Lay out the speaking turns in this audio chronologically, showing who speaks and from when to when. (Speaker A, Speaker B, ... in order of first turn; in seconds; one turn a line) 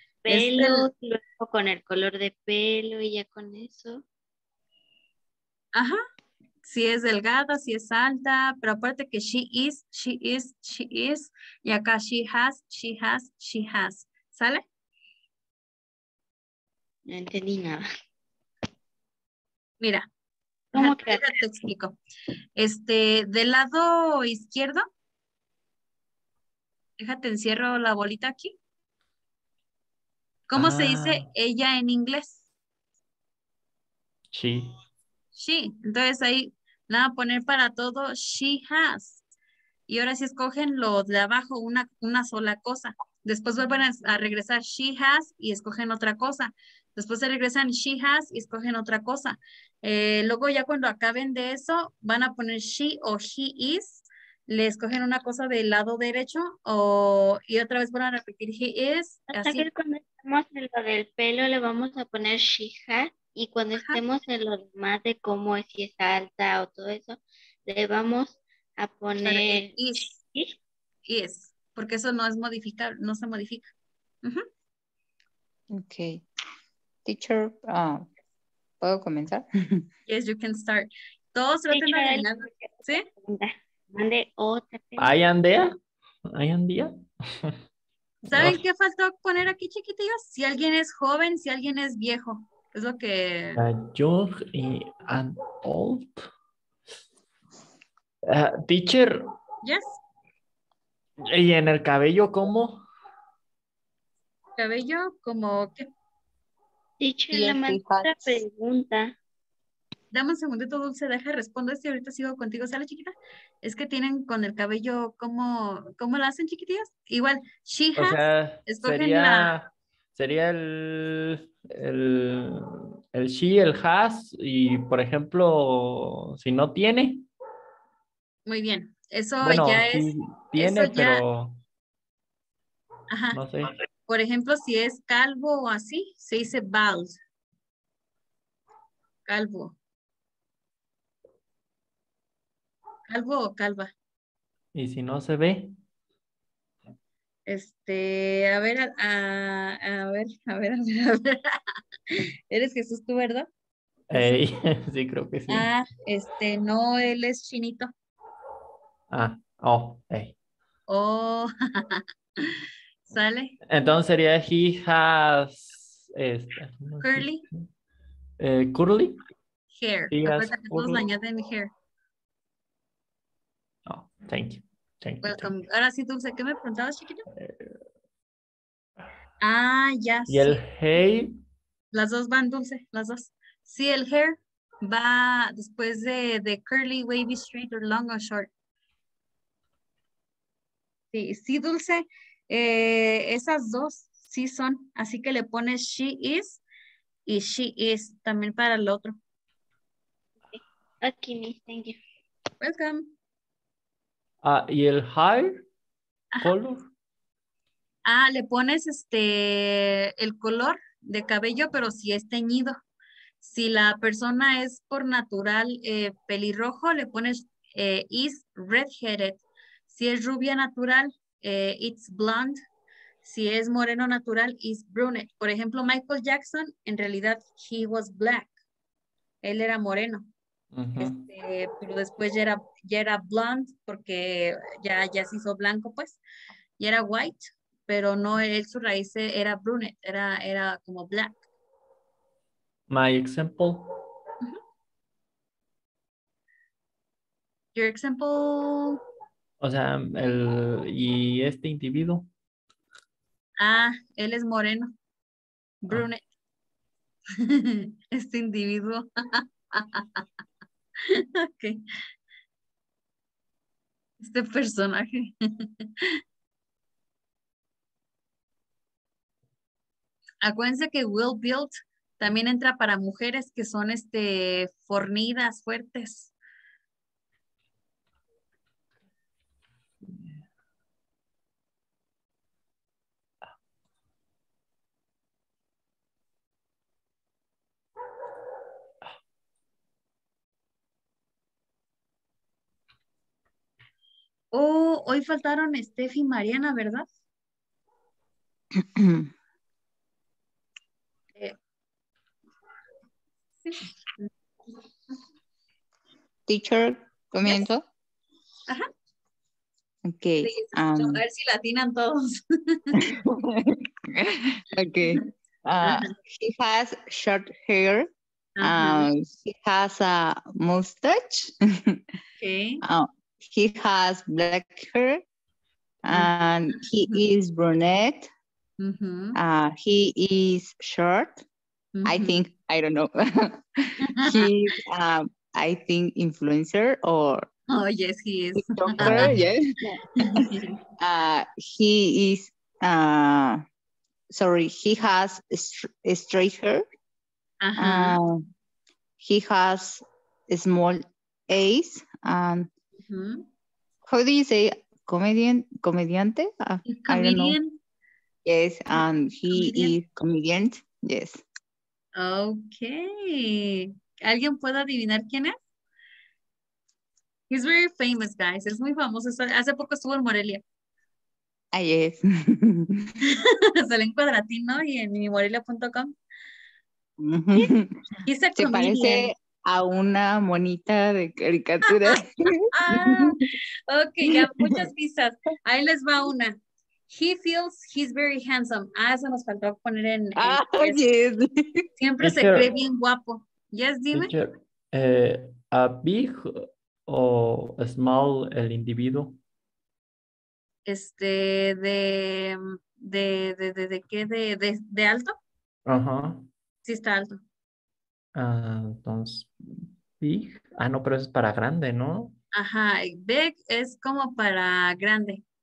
Speaker A: 0.3-4.0
Speaker B: 0.3-0.9
Speaker B: 5.8-6.0
Speaker B: 6.7-14.6
Speaker A: 17.1-17.9
Speaker B: 19.8-20.1
Speaker A: 20.7-21.3
Speaker B: 20.7-22.0
Speaker B: 22.6-24.8
Speaker B: 27.0-28.6
Speaker B: 30.5-32.4
Speaker C: 30.6-31.3
Speaker C: 34.3-34.7
Speaker B: 35.4-39.2
Speaker B: 39.9-59.7
Speaker A: 59.3-70.6
Speaker B: 69.2-70.2
Speaker B: 71.1-73.7
Speaker D: 75.7-76.2
Speaker D: 77.0-78.1
Speaker D: 78.8-79.9
Speaker B: 80.1-83.1
Speaker A: 81.7-85.2
Speaker C: 85.0-85.8
Speaker C: 86.3-87.6
Speaker C: 88.3-88.6
Speaker B: 88.3-93.6
Speaker C: 93.6-96.3
Speaker C: 98.3-99.3
Speaker B: 99.6-100.0
Speaker C: 101.3-102.8
Speaker B: 104.6-105.9
Speaker A: 107.0-109.2
Speaker D: 107.3-108.4
Speaker B: 110.1-119.5
Speaker C: 118.0-127.3
Speaker B: 128.5-131.2
Speaker C: 129.4-131.6
Speaker B: 133.1-133.4
Speaker C: 133.3-133.8
Speaker B: 134.1-137.2
Speaker B: 139.3-139.8
Speaker B: 143.1-143.9
Speaker C: 144.8-145.8
Speaker B: 147.5-151.6
Speaker B: 152.5-153.5
Speaker C: 154.1-155.7
Speaker B: 154.1-154.4
Speaker B: 155.5-157.9
Speaker C: 159.1-160.3
Speaker B: 160.9-163.6
Speaker C: 163.7-167.7
Speaker B: 167.0-167.4
Speaker C: 168.4-169.2
Speaker B: 169.7-171.7
Speaker C: 170.1-171.1
Speaker C: 173.9-175.6
Speaker B: 175.2-177.2
Speaker C: 177.4-177.7
Speaker B: 179.4-180.6
Speaker C: 180.3-181.3
Speaker B: 181.9-188.5
Speaker B: 191.1-196.6
Speaker B: 197.3-199.2
Speaker A: 200.5-202.0
Speaker B: 202.6-203.1
Speaker C: 204.4-205.7
Speaker C: 206.4-206.9
Speaker B: 208.1-212.8
Speaker B: 213.4-222.6
Speaker B: 223.2-228.5
Speaker B: 229.4-230.3
Speaker C: 230.7-231.2
Speaker B: 231.0-236.2
Speaker B: 236.8-241.4
Speaker C: 242.9-244.0
Speaker B: 247.8-249.0
Speaker C: 249.6-252.3
Speaker B: 253.6-254.9
Speaker B: 255.8-256.2
Speaker B: 257.4-260.2
Speaker B: 261.1-261.8
Speaker B: 264.2-266.1
Speaker B: 270.4-276.3
Speaker C: 280.1-280.4
Speaker B: 294.5-297.1
Speaker D: 298.8-299.3
Speaker B: 303.6-304.3
Speaker D: 306.5-307.8
Speaker D: 310.1-311.2
Speaker B: 310.4-313.1
Speaker D: 313.0-318.1
Speaker B: 315.8-316.1
Speaker B: 318.6-319.1
Speaker D: 318.6-322.0
Speaker B: 322.4-322.8
Speaker D: 322.8-325.2
Speaker D: 326.1-328.3
Speaker B: 326.1-327.2
Speaker B: 328.8-329.4
Speaker D: 329.4-331.4
Speaker B: 331.9-332.4
Speaker D: 332.1-337.5
Speaker B: 334.0-334.5
Speaker B: 337.7-339.3
Speaker D: 338.6-343.6
Speaker B: 340.2-340.6
Speaker D: 344.3-346.8
Speaker B: 347.6-348.2
Speaker D: 347.8-348.4
Speaker D: 349.2-352.7
Speaker B: 353.1-353.5
Speaker D: 354.1-357.6
Speaker B: 356.9-357.8
Speaker D: 358.4-361.4
Speaker B: 358.9-360.0
Speaker B: 362.2-365.6
Speaker B: 367.5-370.6
Speaker D: 371.7-373.2
Speaker B: 373.2-376.1
Speaker D: 377.2-383.5
Speaker B: 378.2-379.3
Speaker B: 381.9-382.2
Speaker B: 382.7-386.6
Speaker D: 384.3-384.8
Speaker B: 387.1-391.0
Speaker D: 390.4-391.9
Speaker B: 392.0-394.3
Speaker C: 392.2-392.7
Speaker C: 394.1-399.4
Speaker B: 400.9-405.4
Speaker C: 405.9-406.5
Speaker B: 406.9-407.4
Speaker C: 408.4-412.4
Speaker B: 412.5-415.4